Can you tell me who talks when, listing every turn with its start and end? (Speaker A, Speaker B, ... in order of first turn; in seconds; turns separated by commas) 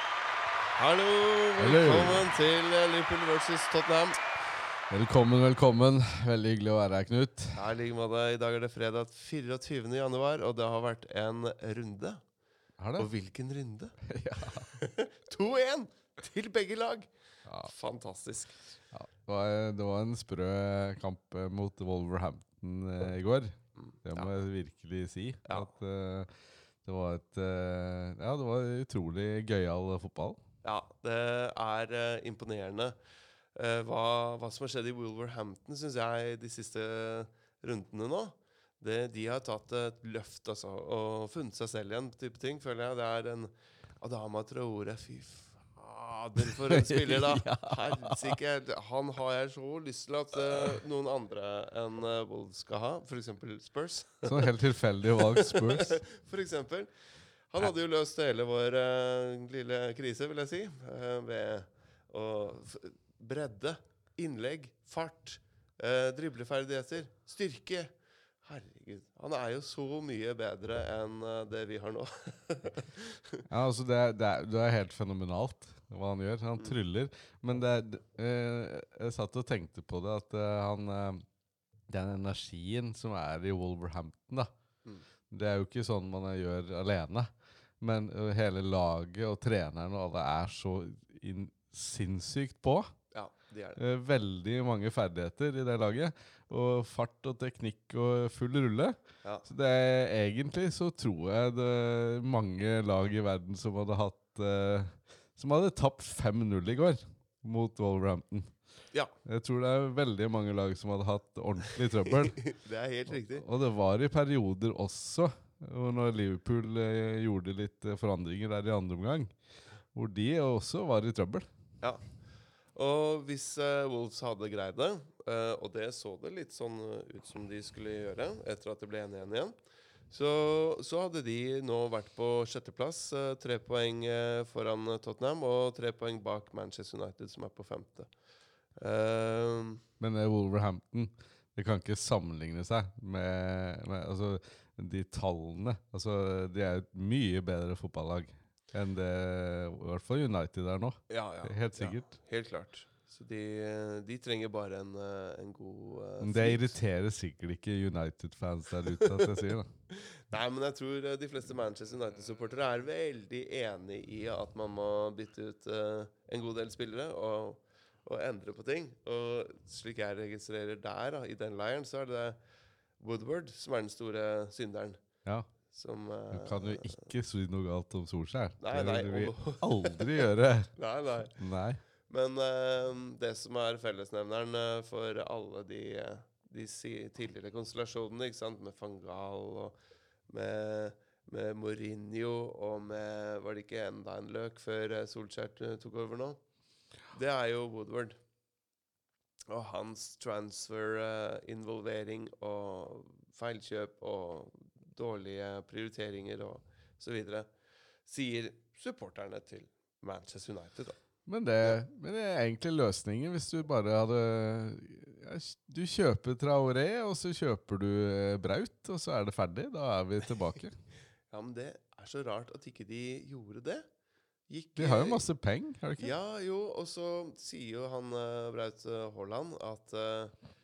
Speaker A: 0.8-4.2, Speaker B: 1.6-2.2, Speaker B: 4.9-7.7, Speaker A: 7.5-12.2, Speaker B: 12.8-13.1, Speaker A: 13.0-14.0, Speaker B: 14.1-14.7, Speaker A: 14.7-17.1, Speaker B: 17.5-17.7, Speaker A: 17.6-18.6, Speaker B: 18.9-26.3, Speaker A: 23.8-24.3, Speaker A: 25.4-25.7, Speaker B: 26.8-30.4, Speaker A: 30.6-33.0, Speaker A: 33.5-54.5, Speaker B: 46.4-48.4, Speaker B: 54.2-56.0, Speaker A: 55.1-56.9, Speaker A: 57.5-67.9, Speaker A: 68.4-73.4, Speaker B: 73.5-81.2, Speaker B: 81.9-84.5, Speaker B: 85.3-87.3, Speaker B: 87.8-92.9, Speaker A: 93.1-93.8, Speaker B: 93.8-108.5, Speaker B: 109.2-112.4, Speaker A: 112.2-113.4, Speaker B: 113.1-119.3, Speaker B: 119.9-121.5, Speaker A: 122.8-129.6, Speaker A: 130.1-138.1, Speaker A: 138.8-139.8, Speaker B: 140.0-152.1, Speaker A: 151.1-156.8, Speaker B: 156.2-159.7, Speaker A: 159.9-172.4, Speaker A: 173.0-175.0, Speaker B: 175.2-175.5, Speaker A: 175.7-177.1, Speaker B: 176.3-180.7, Speaker A: 178.6-180.2, Speaker A: 180.8-181.3, Speaker B: 181.4-181.8, Speaker A: 182.1-189.8, Speaker A: 190.3-196.4, Speaker A: 197.1-198.2, Speaker A: 199.5-207.5, Speaker A: 208.1-211.0, Speaker B: 211.3-220.8, Speaker A: 221.3-223.9, Speaker A: 224.5-225.3, Speaker B: 224.8-226.1, Speaker A: 226.0-230.3